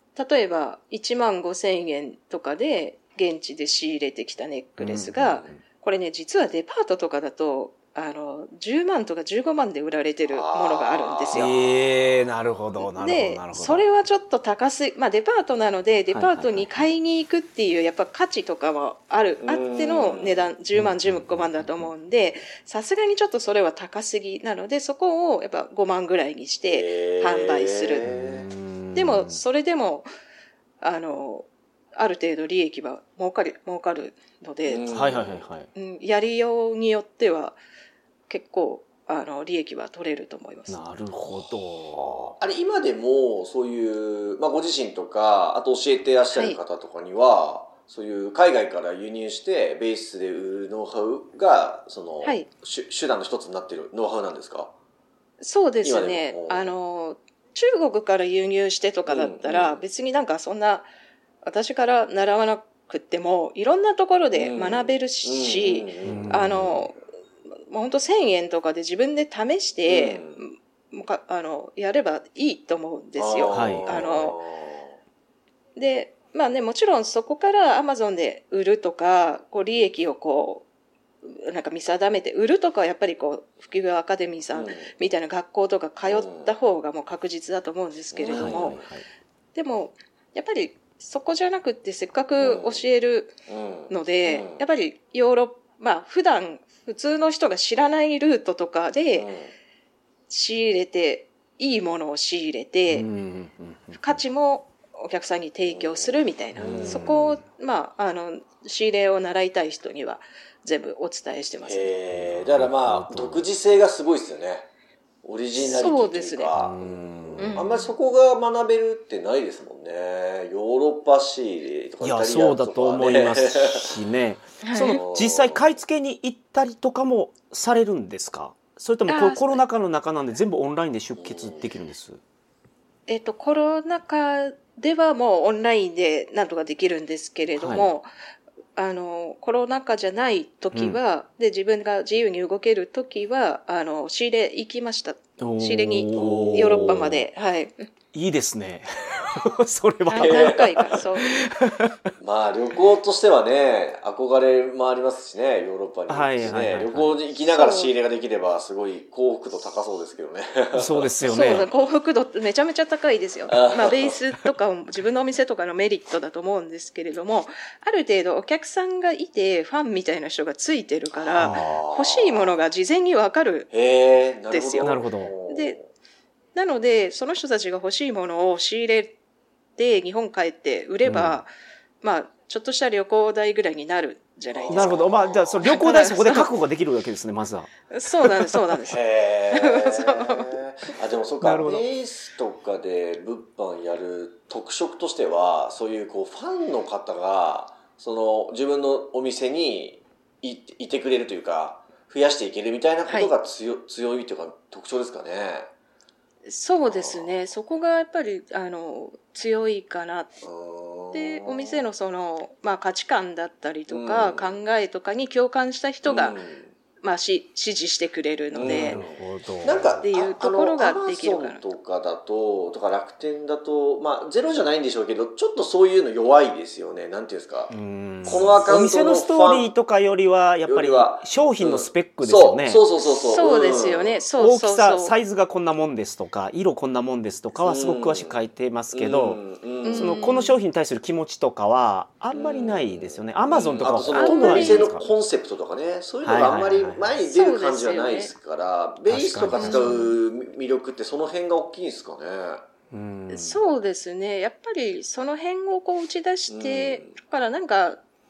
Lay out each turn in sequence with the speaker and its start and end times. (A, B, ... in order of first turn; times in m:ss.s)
0:00.1-0:11.5 A
0:04.8-0:05.5 B
0:10.3-0:11.6 C
0:11.3-0:13.8 B
0:12.8-0:28.0 A
0:16.1-0:16.9 B
0:19.4-0:20.5 C
0:20.7-0:21.9 B
0:26.7-0:28.5 C
0:28.0-0:29.4 B
0:28.9-0:30.1 A
0:30.8-0:34.9 A
0:34.6-0:35.5 C
0:34.9-0:35.7 B
0:35.7-0:37.6 A
0:38.3-0:40.8 A
0:40.7-0:42.3 B
0:41.4-0:54.7 C
0:46.3-0:46.6 A
0:55.4-1:00.9 A
0:55.8-0:56.7 C
0:59.1-0:59.8 C
1:01.4-1:07.0 A
1:04.3-1:06.7 C
1:06.0-1:06.8 B
1:07.7-1:14.4 A
1:09.8-1:10.4 C
1:13.2-1:15.0 C
1:13.5-1:14.0 B
1:15.8-1:20.6 A
1:21.2-1:28.8 A
1:24.5-1:24.9 C
1:26.0-1:26.5 C
1:28.1-1:28.9 C
1:28.3-1:29.0 B
1:29.5-1:33.4 A
1:32.4-1:32.8 C
1:33.5-1:34.6 C
1:33.9-1:39.3 A
1:39.1-1:39.5 C
1:40.3-1:43.1 A
1:42.9-1:44.2 B
1:44.0-1:51.9 A
1:45.7-1:47.1 C
1:46.6-1:47.4 B
1:51.6-1:54.7 C
1:52.1-1:53.5 B
1:55.2-2:03.9 C
1:55.6-1:56.5 A
1:56.5-1:57.7 B
1:57.4-1:57.9 A
2:02.0-2:12.2 B
2:04.6-2:05.0 A
2:04.8-2:05.7 C
2:09.1-2:09.6 A
2:11.2-2:11.6 C
2:13.1-2:18.1 A
2:17.5-2:17.9 B
2:18.8-2:27.9 A
2:20.7-2:21.0 B
2:25.4-2:27.2 B
2:26.2-2:27.1 C
2:28.1-2:31.9 B
2:30.1-2:31.4 A
2:30.1-2:31.0 C
2:32.2-2:41.7 C
2:36.1-2:37.2 B
2:37.5-2:37.9 A
2:40.7-2:41.7 B
2:41.3-2:53.7 A
2:43.5-2:44.2 C
2:51.1-2:52.6 C
2:51.4-2:51.7 B
2:53.7-2:55.9 C
2:54.5-2:55.8 A
2:54.8-2:55.3 B
2:56.5-2:59.2 A
2:59.8-3:01.5 A
3:01.0-3:01.4 B
3:02.0-3:05.0 A
3:04.5-3:05.7 C
3:04.7-3:08.6 B
3:05.6-3:06.5 A
3:07.9-3:09.0 A
3:08.9-3:25.7 C
3:09.5-3:10.6 A
3:11.4-3:11.8 B
3:23.1-3:23.3 A
3:26.4-3:30.4 A
3:26.9-3:27.3 C
3:30.4-3:31.8 C
3:31.1-3:36.4 A
3:33.9-3:34.6 C
3:36.0-3:36.7 C
3:37.0-3:39.0 A
3:38.5-3:49.7 C
3:38.6-3:40.0 B
3:40.0-3:41.6 A
3:47.7-3:52.8 B
3:50.6-3:54.2 C
3:53.0-3:55.1 A
3:54.4-3:59.4 B
3:57.6-3:58.4 C
3:58.9-4:00.2 C
3:59.8-4:00.5 A
3:59.9-4:05.0 B
4:02.3-4:12.6 C
4:04.1-4:04.9 A
4:06.2-4:07.1 B
4:07.2-4:08.3 A
4:09.1-4:10.0 B
4:09.5-4:10.1 A
4:12.9-4:13.6 B
4:13.3-4:18.0 A
4:16.5-4:17.2 C